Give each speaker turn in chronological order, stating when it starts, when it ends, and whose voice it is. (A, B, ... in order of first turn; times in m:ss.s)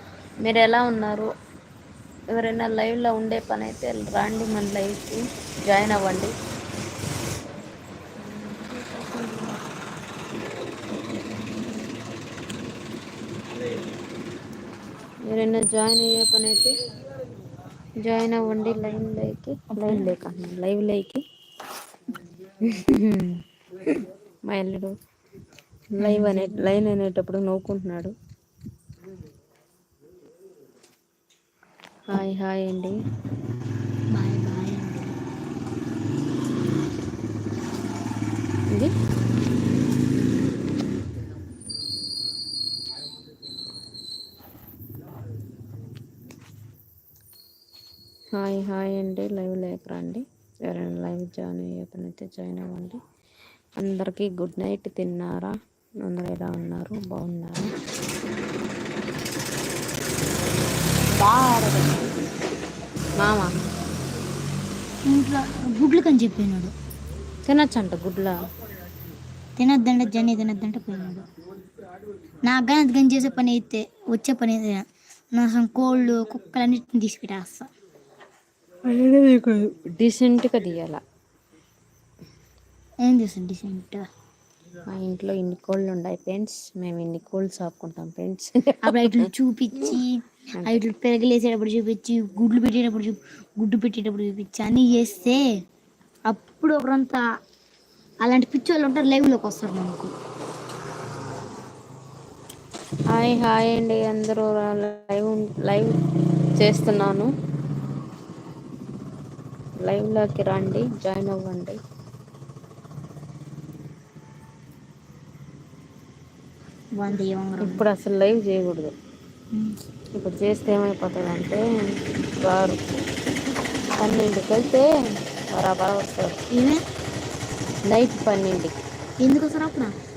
0:00.4-0:01.3 A
0:02.3-0:06.3 A
0:08.4-0:09.6 B
0:15.3-0:16.8 A
0:18.0-0:21.2 A
0:19.7-0:20.1 B
0:22.6-0:24.9 A
0:26.0-0:28.1 A
0:26.0-0:26.7 B
0:32.1-0:32.9 A
0:34.1-0:35.2 B
0:48.3-0:53.0 A
0:53.8-0:57.7 A
1:01.1-1:02.1 A
1:03.2-1:03.5 A
1:05.1-1:06.7 B
1:07.4-1:08.4 A
1:09.6-1:11.3 B
1:12.4-1:17.7 B
1:18.8-1:21.0 A
1:23.0-1:24.0 B
1:24.9-1:29.3 A
1:28.8-1:35.4 B
1:36.3-1:37.2 B
1:38.2-1:40.1 B
1:43.1-1:46.0 A
1:46.6-1:47.3 A
1:49.8-1:51.8 A
1:57.0-1:57.8 B
1:57.6-1:58.9 A
2:00.1-2:02.8 A
2:04.0-2:04.9 A
2:05.5-2:06.4 A
2:06.5-2:06.8 B
2:07.8-2:08.8 A
2:09.2-2:09.9 B